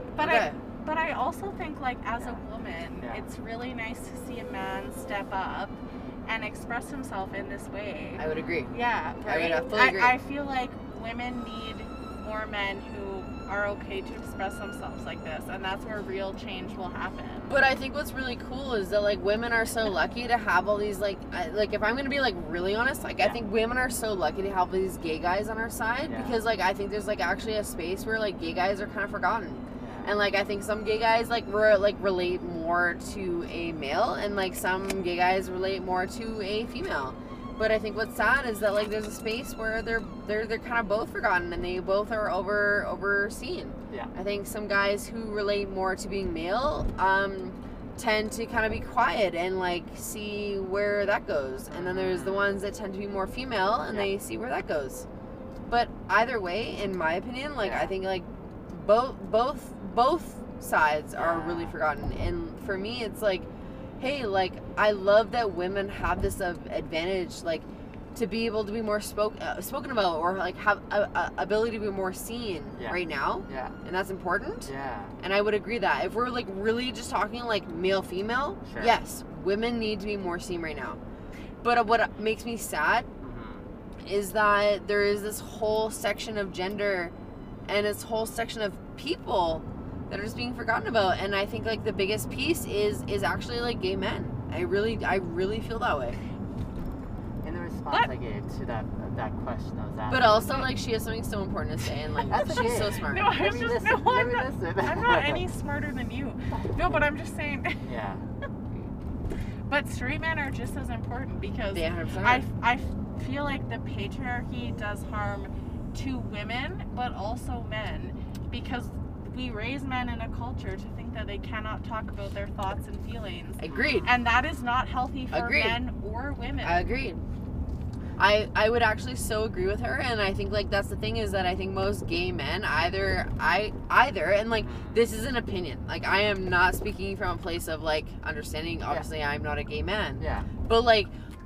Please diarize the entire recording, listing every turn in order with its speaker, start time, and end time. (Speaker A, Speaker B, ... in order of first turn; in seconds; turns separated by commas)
Speaker A: 0.2-0.6, Speaker B: 0.2-17.5, Speaker C: 2.2-2.4, Speaker C: 3.0-3.2, Speaker A: 8.2-10.2, Speaker C: 8.2-8.8, Speaker A: 17.5-55.0, Speaker C: 26.0-26.4, Speaker C: 29.8-30.1, Speaker C: 43.9-44.1, Speaker C: 51.7-52.6, Speaker C: 53.9-54.1, Speaker A: 55.7-81.0, Speaker C: 57.6-57.9, Speaker C: 61.1-61.8, Speaker C: 72.7-73.8, Speaker C: 74.6-75.2, Speaker C: 78.6-79.0, Speaker A: 81.6-83.1, Speaker C: 83.2-83.7, Speaker A: 84.0-87.1, Speaker A: 87.7-96.2, Speaker C: 97.4-100.7, Speaker A: 100.1-103.4, Speaker C: 102.2-105.5, Speaker B: 103.1-107.8, Speaker C: 106.5-107.0, Speaker C: 107.8-108.9, Speaker B: 109.7-126.9, Speaker A: 111.7-112.5, Speaker A: 123.6-124.2, Speaker C: 123.7-124.2, Speaker A: 125.3-125.8, Speaker A: 126.6-127.2, Speaker A: 128.2-141.1, Speaker C: 134.5-135.1, Speaker C: 140.2-140.5